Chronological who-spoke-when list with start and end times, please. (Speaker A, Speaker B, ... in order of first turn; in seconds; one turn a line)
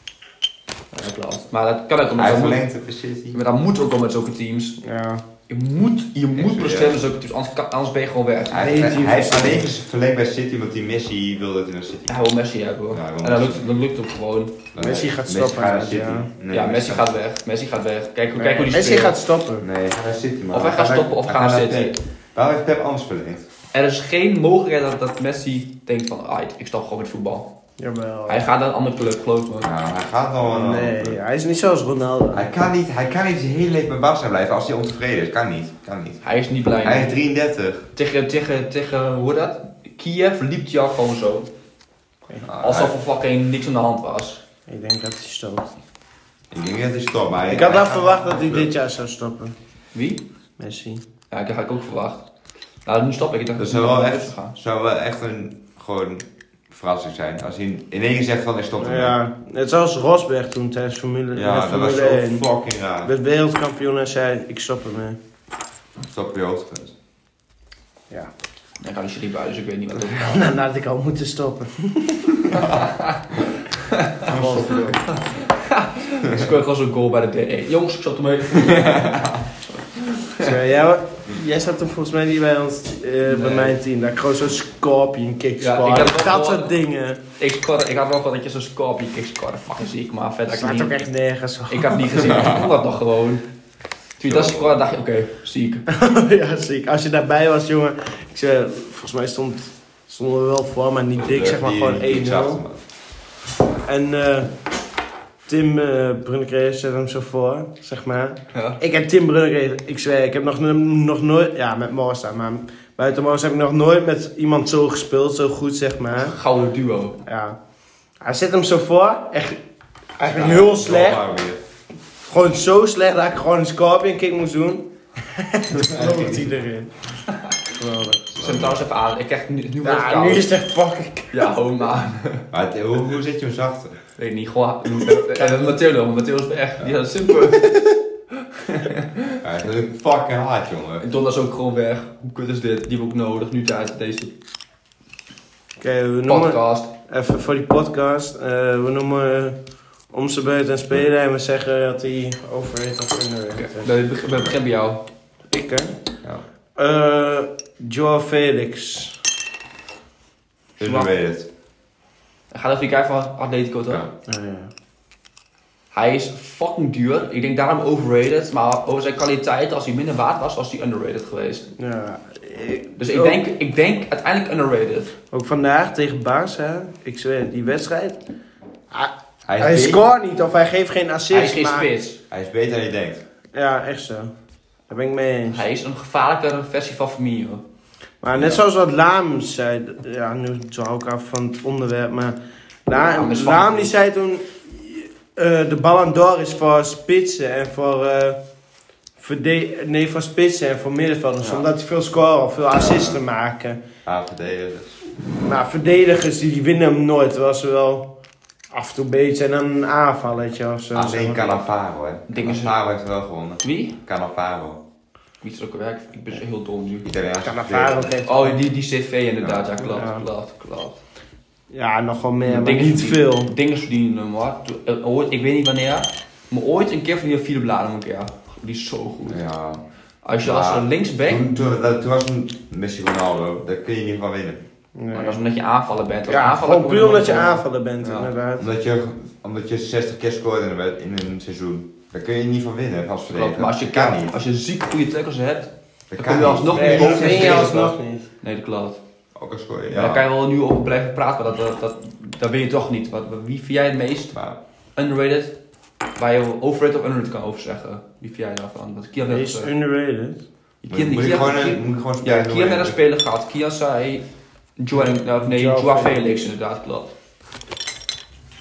Speaker A: 0.9-2.7
Speaker B: 2.2-3.4
Speaker A: 3.3-4.8
Speaker C: 4.8-5.2
Speaker A: 5.5-8.9
Speaker B: 6.3-7.0
Speaker B: 8.5-12.2
Speaker C: 8.6-9.7
Speaker A: 12.1-14.6
Speaker B: 12.9-13.7
Speaker B: 14.7-17.1
Speaker C: 14.8-16.3
Speaker A: 16.5-19.2
Speaker C: 18.3-19.7
Speaker B: 19.6-23.4
Speaker A: 20.5-21.9
Speaker C: 20.8-21.1
Speaker A: 23.7-27.5
Speaker C: 27.8-28.5
Speaker A: 28.3-29.7
Speaker B: 29.6-31.2
Speaker C: 30.4-32.5
Speaker B: 32.3-36.2
Speaker A: 36.2-37.2
Speaker B: 36.8-37.9
Speaker A: 37.9-41.5
Speaker B: 42.4-43.0
Speaker A: 42.6-44.4
Speaker C: 44.7-45.7
Speaker B: 46.5-48.7
Speaker C: 47.5-49.5
Speaker A: 49.9-50.2
Speaker C: 50.6-51.0
Speaker A: 51.3-52.2
Speaker A: 52.8-54.6
Speaker B: 53.6-59.1
Speaker C: 58.8-62.5
Speaker B: 61.3-63.1
Speaker C: 63.0-65.2
Speaker B: 66.1-66.9
Speaker A: 68.8-70.5
Speaker C: 70.0-72.6
Speaker A: 72.5-74.2
Speaker C: 74.2-75.1
Speaker B: 74.3-74.8
Speaker A: 75.4-80.6
Speaker B: 78.7-79.1
Speaker C: 80.4-87.2
Speaker A: 83.2-83.8
Speaker A: 85.6-86.7
Speaker A: 87.4-91.0
Speaker C: 90.5-92.4
Speaker A: 91.7-93.4
Speaker B: 92.2-92.8
Speaker A: 94.2-95.8
Speaker B: 94.2-94.8
Speaker C: 95.9-102.6
Speaker B: 101.2-102.8
Speaker C: 103.9-104.5
Speaker C: 105.5-116.4
Speaker A: 108.5-108.8
Speaker A: 116.2-117.2
Speaker C: 117.2-117.6
Speaker C: 118.2-119.6
Speaker C: 120.2-121.2
Speaker B: 120.2-121.6
Speaker C: 122.3-126.9
Speaker B: 125.7-126.5
Speaker C: 127.7-128.3
Speaker B: 128.3-128.8
Speaker A: 128.4-130.5
Speaker C: 129.8-131.5
Speaker A: 131.3-132.4
Speaker B: 132.5-134.0
Speaker A: 134.2-139.4
Speaker C: 135.3-135.7
Speaker B: 139.4-141.1
Speaker A: 141.0-144.3
Speaker C: 145.8-149.6
Speaker A: 146.2-146.9
Speaker C: 150.1-154.0
Speaker A: 153.5-155.1
Speaker C: 155.5-156.0
Speaker C: 156.8-159.2
Speaker B: 160.8-161.5
Speaker A: 160.8-161.1
Speaker A: 162.5-164.0
Speaker C: 164.3-164.7
Speaker A: 165.9-171.7
Speaker C: 171.8-173.5
Speaker A: 173.0-175.1
Speaker C: 175.3-178.2
Speaker C: 178.9-181.9
Speaker B: 179.4-180.0
Speaker A: 181.3-182.2
Speaker B: 182.3-183.2
Speaker C: 183.5-184.3
Speaker C: 184.9-185.7
Speaker A: 185.5-187.6
Speaker C: 188.2-198.4
Speaker B: 188.3-188.6
Speaker A: 192.9-193.9
Speaker C: 199.2-203.8
Speaker B: 204.1-205.0
Speaker C: 205.4-208.1
Speaker C: 208.7-211.7
Speaker B: 210.9-214.8
Speaker A: 212.3-212.8
Speaker A: 213.6-214.0
Speaker A: 215.4-217.1
Speaker B: 217.1-218.1
Speaker C: 217.4-218.7
Speaker A: 218.2-221.0
Speaker B: 219.4-219.8
Speaker C: 219.8-220.3
Speaker C: 221.7-223.5
Speaker A: 222.4-229.4
Speaker B: 229.3-229.8
Speaker A: 230.2-231.4
Speaker B: 230.4-234.6
Speaker C: 234.9-235.4
Speaker A: 235.1-238.3
Speaker C: 236.3-238.7
Speaker B: 238.6-244.4
Speaker A: 243.3-249.0
Speaker B: 246.1-247.8
Speaker C: 246.7-248.3
Speaker B: 249.3-250.2
Speaker A: 249.9-254.4
Speaker B: 254.3-254.6
Speaker A: 254.9-255.6
Speaker A: 256.2-259.7
Speaker C: 259.2-260.4
Speaker A: 260.8-264.2
Speaker B: 260.9-263.0
Speaker A: 264.8-267.1
Speaker C: 264.9-266.5